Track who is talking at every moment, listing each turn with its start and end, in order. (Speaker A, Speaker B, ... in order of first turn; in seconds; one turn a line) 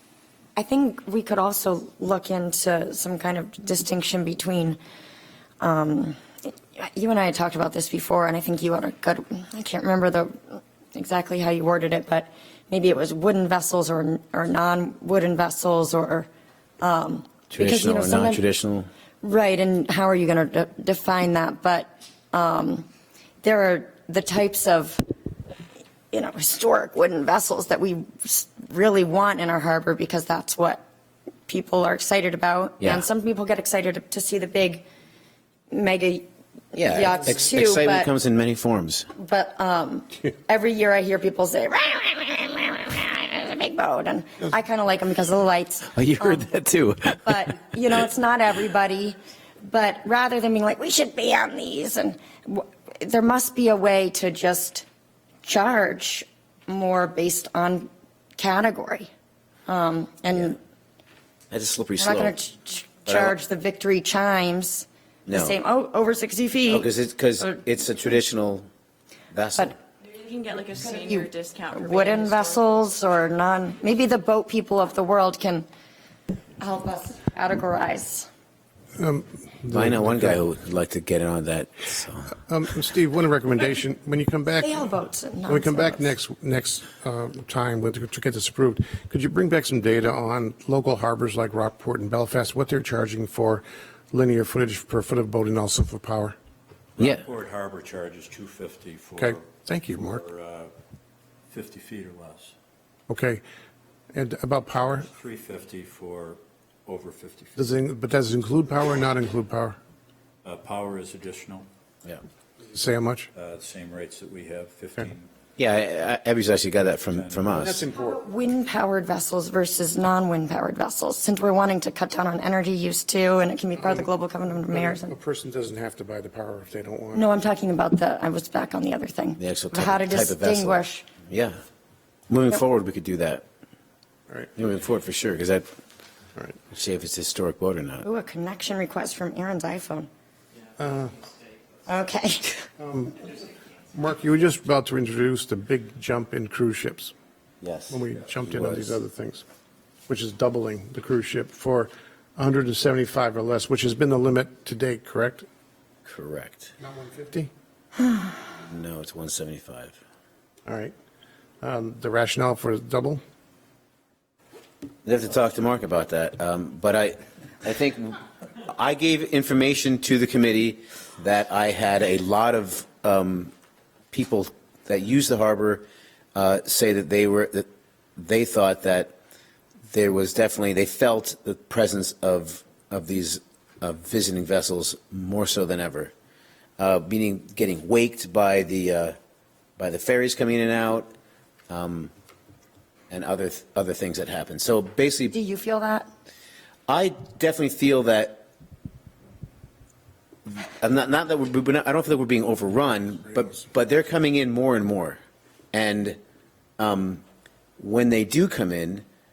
Speaker A: 0.6-4.8
Speaker A: 5.6-16.3
Speaker A: 16.8-18.4
Speaker B: 17.5-18.9
Speaker A: 19.2-22.9
Speaker A: 23.4-25.0
Speaker A: 26.1-30.8
Speaker A: 31.5-34.9
Speaker A: 35.7-38.1
Speaker B: 36.7-39.1
Speaker A: 39.1-46.6
Speaker B: 45.9-47.7
Speaker A: 47.2-54.8
Speaker A: 55.4-59.1
Speaker A: 59.7-60.6
Speaker B: 60.3-60.6
Speaker B: 61.5-62.4
Speaker A: 62.0-66.9
Speaker B: 63.0-63.3
Speaker B: 65.3-65.6
Speaker B: 66.7-68.7
Speaker B: 69.3-69.7
Speaker C: 70.1-72.8
Speaker A: 70.8-75.7
Speaker A: 76.6-78.3
Speaker D: 79.0-80.4
Speaker B: 79.7-82.4
Speaker D: 82.5-84.9
Speaker A: 84.6-86.1
Speaker D: 85.5-96.3
Speaker E: 97.0-100.7
Speaker D: 99.2-100.2
Speaker E: 101.5-102.5
Speaker D: 103.1-103.4
Speaker D: 104.1-105.1
Speaker E: 104.8-107.7
Speaker D: 107.6-109.8
Speaker E: 110.4-111.7
Speaker D: 112.7-113.3
Speaker E: 113.3-115.3
Speaker B: 115.6-117.8
Speaker E: 117.0-117.7
Speaker D: 117.5-118.2
Speaker A: 118.0-125.1
Speaker D: 123.8-124.1
Speaker D: 124.7-127.2
Speaker A: 127.1-131.1
Speaker B: 129.4-131.6
Speaker B: 132.3-133.4
Speaker B: 134.6-135.7
Speaker B: 136.7-138.1
Speaker A: 138.0-140.1
Speaker D: 140.8-141.2
Speaker A: 141.8-142.7
Speaker D: 142.8-143.3
Speaker D: 143.9-147.1
Speaker B: 147.6-149.0
Speaker D: 147.9-149.4
Speaker D: 150.1-155.4
Speaker B: 156.1-156.7
Speaker D: 156.8-157.5
Speaker B: 158.7-160.0
Speaker D: 160.7-160.9
Speaker D: 161.6-163.2
Speaker B: 165.0-173.5
Speaker B: 174.1-175.8
Speaker B: 176.3-179.1
Speaker B: 179.9-186.1
Speaker B: 186.8-189.2
Speaker B: 189.8-191.1
Speaker B: 191.7-192.1
Speaker B: 193.1-195.3
Speaker A: 195.3-196.1
Speaker B: 196.9-198.4
Speaker B: 200.5-205.2
Speaker B: 205.7-206.2
Speaker B: 206.8-207.2
Speaker B: 207.8-209.0